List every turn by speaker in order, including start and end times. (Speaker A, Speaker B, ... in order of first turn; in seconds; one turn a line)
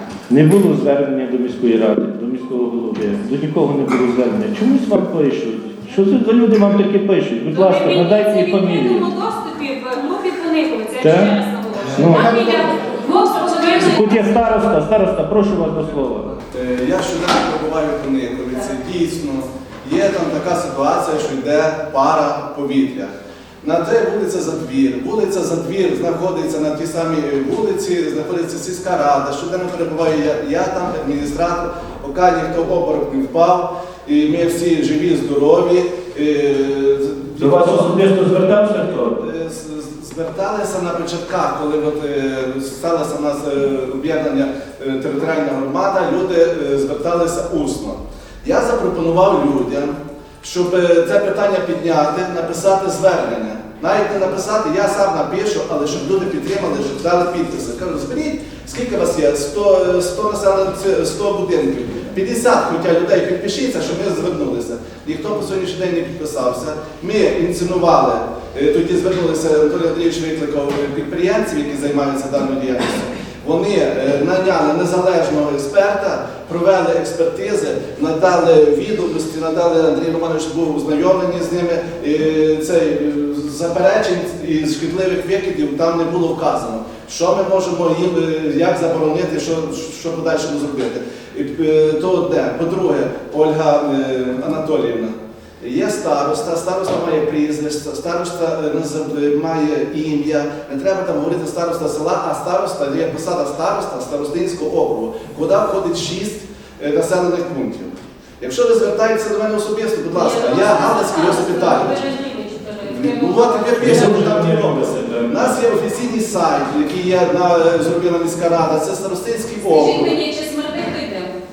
Speaker A: 0.3-9.1
Speaker B: 7.5-14.4
Speaker A: 11.0-11.4
Speaker A: 11.9-12.7
Speaker A: 13.7-16.4
Speaker C: 16.5-38.2
Speaker A: 37.4-39.2
Speaker C: 39.1-112.0
Speaker B: 110.1-113.8
Speaker C: 112.8-120.2
Speaker A: 113.8-115.6
Speaker B: 119.7-121.4